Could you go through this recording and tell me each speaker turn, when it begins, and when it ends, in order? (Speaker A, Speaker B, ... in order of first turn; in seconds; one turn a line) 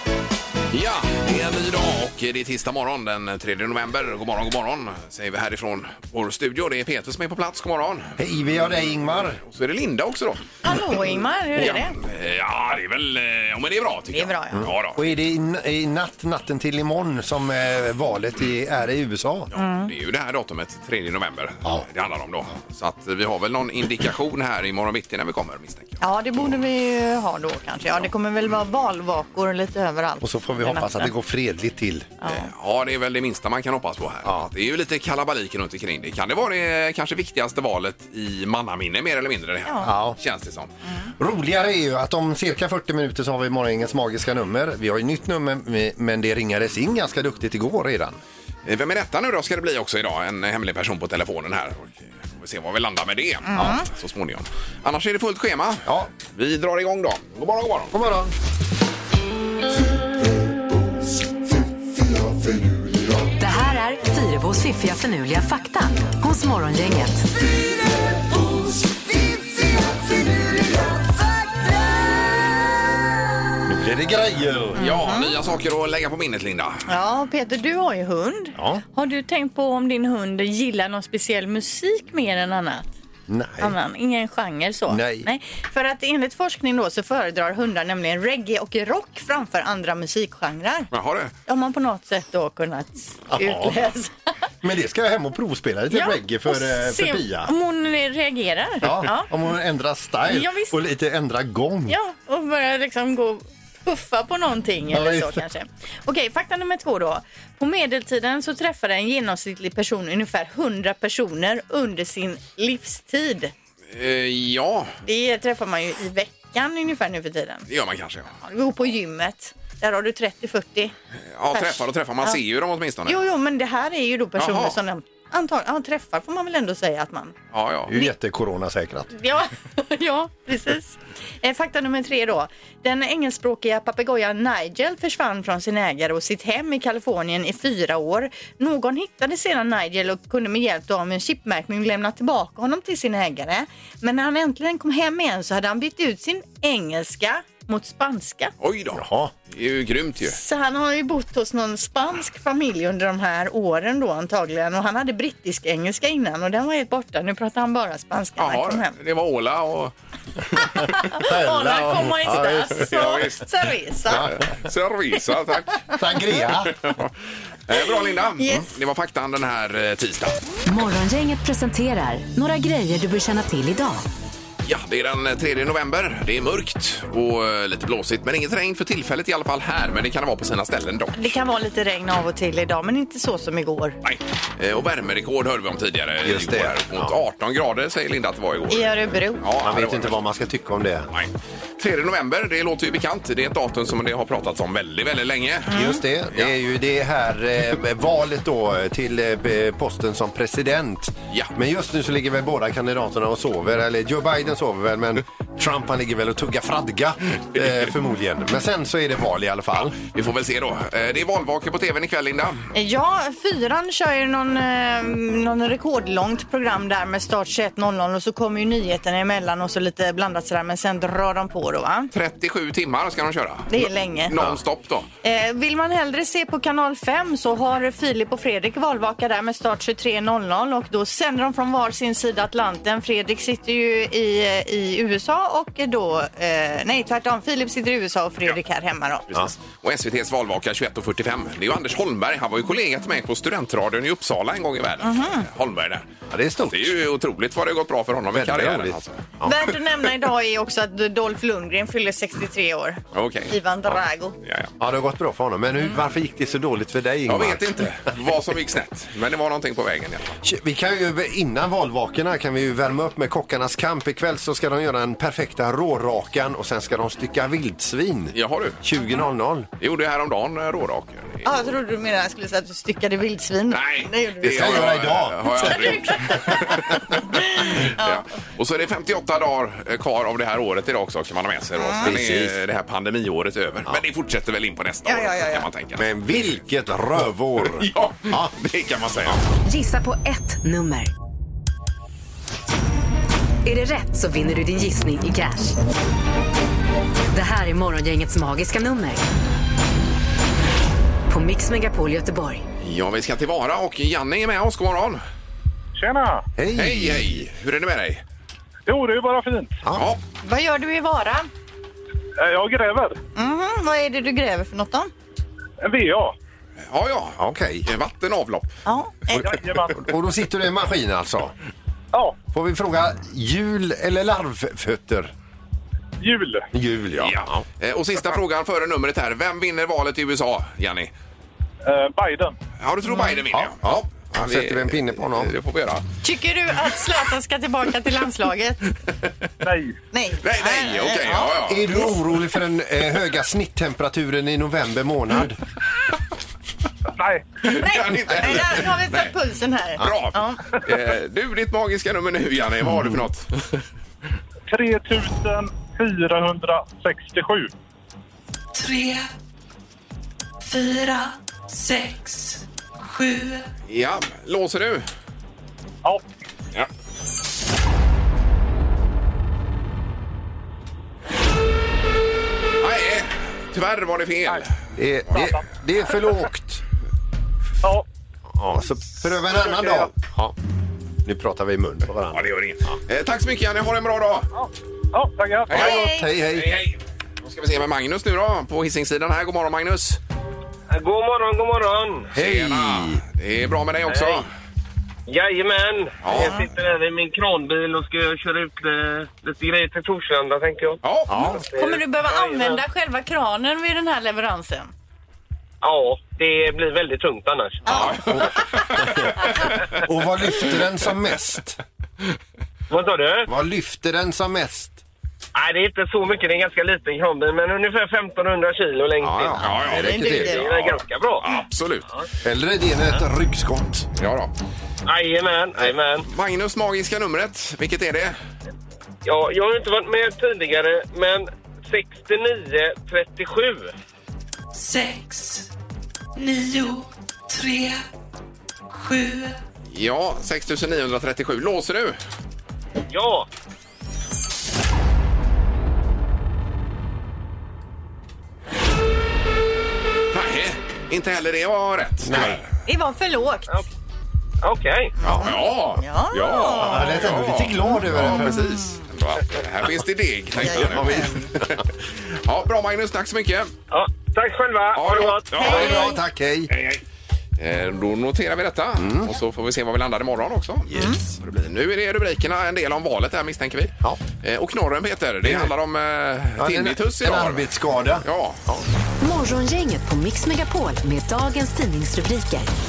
Speaker A: 0.7-8.2
Speaker B: 8.2-9.4
Speaker A: 9.4-10.4
Speaker C: 10.6-11.9
Speaker A: 11.6-15.0
Speaker C: 14.1-14.7
Speaker B: 14.5-19.5
Speaker A: 19.5-26.0
Speaker C: 19.5-19.9
Speaker C: 26.0-31.1
Speaker B: 30.2-32.1
Speaker C: 32.2-32.5
Speaker A: 32.3-40.7
Speaker B: 34.2-34.5
Speaker B: 39.8-40.2
Speaker C: 40.9-41.1
Speaker B: 41.2-48.2
Speaker A: 48.7-57.9
Speaker C: 53.5-53.9
Speaker B: 53.6-53.8
Speaker B: 55.9-56.1
Speaker B: 57.9-58.3
Speaker D: 63.4-67.3
Speaker B: 73.7-74.8
Speaker C: 74.8-75.3
Speaker A: 74.8-76.8
Speaker C: 76.9-82.9
Speaker B: 78.6-78.8
Speaker B: 83.3-83.8
Speaker C: 83.6-90.9
Speaker B: 84.9-85.3
Speaker A: 90.9-91.3
Speaker C: 91.5-94.2
Speaker B: 93.3-93.9
Speaker B: 94.6-97.5
Speaker C: 95.9-99.3
Speaker B: 98.8-102.0
Speaker C: 100.3-100.8
Speaker C: 101.9-113.5
Speaker B: 104.9-105.4
Speaker A: 113.9-115.0
Speaker C: 115.0-117.7
Speaker A: 117.7-118.3
Speaker C: 118.4-120.9
Speaker A: 121.3-123.2
Speaker C: 121.5-122.4
Speaker C: 123.1-127.3
Speaker A: 124.4-124.8
Speaker A: 127.5-128.0
Speaker B: 127.9-129.1
Speaker C: 129.1-148.5
Speaker A: 148.6-150.4
Speaker B: 148.9-149.3
Speaker C: 150.3-158.9
Speaker A: 158.4-159.9
Speaker A: 160.7-160.9
Speaker C: 160.7-164.4
Speaker B: 161.1-162.9
Speaker A: 162.9-163.5
Speaker B: 164.1-164.4
Speaker A: 164.1-165.9
Speaker B: 165.9-166.7
Speaker A: 166.5-167.1
Speaker A: 167.7-170.4
Speaker C: 168.4-168.7
Speaker D: 170.7-174.1
Speaker A: 174.6-181.3
Speaker C: 181.2-184.0
Speaker A: 184.0-190.2
Speaker B: 186.2-187.2
Speaker C: 188.7-189.4
Speaker B: 189.6-191.1
Speaker A: 191.1-196.5
Speaker C: 195.7-196.0
Speaker B: 195.7-210.0
Speaker A: 209.8-212.7
Speaker C: 212.7-222.1
Speaker A: 222.1-225.1
Speaker C: 223.7-224.3
Speaker B: 224.3-224.6
Speaker C: 225.2-239.5
Speaker A: 239.8-246.1
Speaker C: 245.0-245.5
Speaker B: 246.3-247.0
Speaker A: 246.6-249.1
Speaker B: 248.3-249.6
Speaker C: 249.4-254.4
Speaker A: 253.1-253.6
Speaker A: 254.4-254.7
Speaker B: 254.8-257.8
Speaker A: 257.3-260.4
Speaker B: 260.4-269.7
Speaker A: 268.3-268.8
Speaker A: 269.8-271.7
Speaker C: 271.4-274.9
Speaker A: 273.7-286.1
Speaker B: 274.4-276.7
Speaker C: 275.5-276.4
Speaker C: 277.2-278.2
Speaker C: 281.8-282.1
Speaker B: 282.0-282.6
Speaker C: 285.1-285.7
Speaker B: 286.0-288.5
Speaker A: 287.7-289.4
Speaker D: 289.6-291.1
Speaker D: 293.6-295.8
Speaker D: 297.3-299.2
Speaker D: 301.3-302.6
Speaker A: 302.8-305.2
Speaker E: 306.0-306.4
Speaker B: 306.6-307.4
Speaker A: 306.7-308.2
Speaker E: 308.9-309.8
Speaker B: 309.8-310.1
Speaker A: 309.9-310.2
Speaker C: 310.4-311.5
Speaker E: 312.4-313.2
Speaker C: 313.4-315.1
Speaker E: 315.8-316.4
Speaker A: 316.9-318.7
Speaker B: 317.4-317.9
Speaker C: 318.9-319.6
Speaker E: 319.4-320.0
Speaker B: 319.9-321.5
Speaker B: 322.5-325.3
Speaker E: 326.2-326.7
Speaker B: 326.7-327.6
Speaker A: 327.2-331.1
Speaker E: 331.9-332.6
Speaker A: 332.8-336.0
Speaker C: 333.1-333.4
Speaker B: 333.5-335.5
Speaker C: 336.2-338.8
Speaker E: 339.6-340.0
Speaker C: 340.1-342.1
Speaker A: 340.4-342.0
Speaker B: 341.7-345.6
Speaker E: 347.2-347.5
Speaker A: 347.6-349.3
Speaker C: 347.8-350.6
Speaker A: 350.0-353.8
Speaker E: 354.7-357.7
Speaker F: 358.7-359.3
Speaker F: 360.6-363.7
Speaker A: 363.9-365.1
Speaker A: 372.8-374.7
Speaker B: 375.0-376.8
Speaker E: 375.3-375.7
Speaker B: 378.5-380.6
Speaker B: 381.2-383.0
Speaker A: 382.3-384.5
Speaker E: 384.6-385.9
Speaker A: 385.7-390.2
Speaker C: 385.7-386.3
Speaker B: 385.7-386.7
Speaker G: 390.9-392.3
Speaker B: 392.3-393.2
Speaker A: 392.4-394.5
Speaker G: 394.1-394.4
Speaker G: 395.3-401.0
Speaker A: 396.2-396.6
Speaker C: 396.3-396.6
Speaker A: 401.0-401.6
Speaker B: 401.3-401.6
Speaker G: 401.5-402.8
Speaker C: 401.7-404.9
Speaker G: 405.8-407.8
Speaker C: 407.9-408.4
Speaker A: 407.9-410.0
Speaker B: 408.0-411.8
Speaker G: 412.9-413.5
Speaker B: 413.5-415.0
Speaker G: 415.6-419.7
Speaker B: 419.2-420.7
Speaker A: 419.3-422.1
Speaker C: 419.9-420.7
Speaker G: 420.3-421.5
Speaker B: 422.4-424.1
Speaker A: 424.2-424.5
Speaker G: 425.1-426.3
Speaker A: 426.2-428.4
Speaker G: 429.2-433.9
Speaker F: 434.7-435.7
Speaker F: 436.4-438.1
Speaker F: 438.9-439.6
Speaker A: 439.9-442.2
Speaker G: 443.1-443.5
Speaker A: 450.3-452.6
Speaker B: 452.2-452.6
Speaker C: 452.9-453.8
Speaker G: 454.6-455.1
Speaker C: 455.2-457.3
Speaker A: 455.2-461.8
Speaker B: 456.8-458.6
Speaker C: 457.8-459.0
Speaker C: 460.6-461.4
Speaker B: 460.7-461.4
Speaker A: 462.4-463.7
Speaker G: 463.9-466.0
Speaker A: 464.9-466.1
Speaker B: 465.5-466.7
Speaker C: 465.6-466.2
Speaker A: 466.7-467.0
Speaker A: 467.6-478.6
Speaker B: 469.0-469.3
Speaker B: 470.9-471.3
Speaker B: 475.4-475.7
Speaker B: 476.6-478.9
Speaker D: 479.2-482.7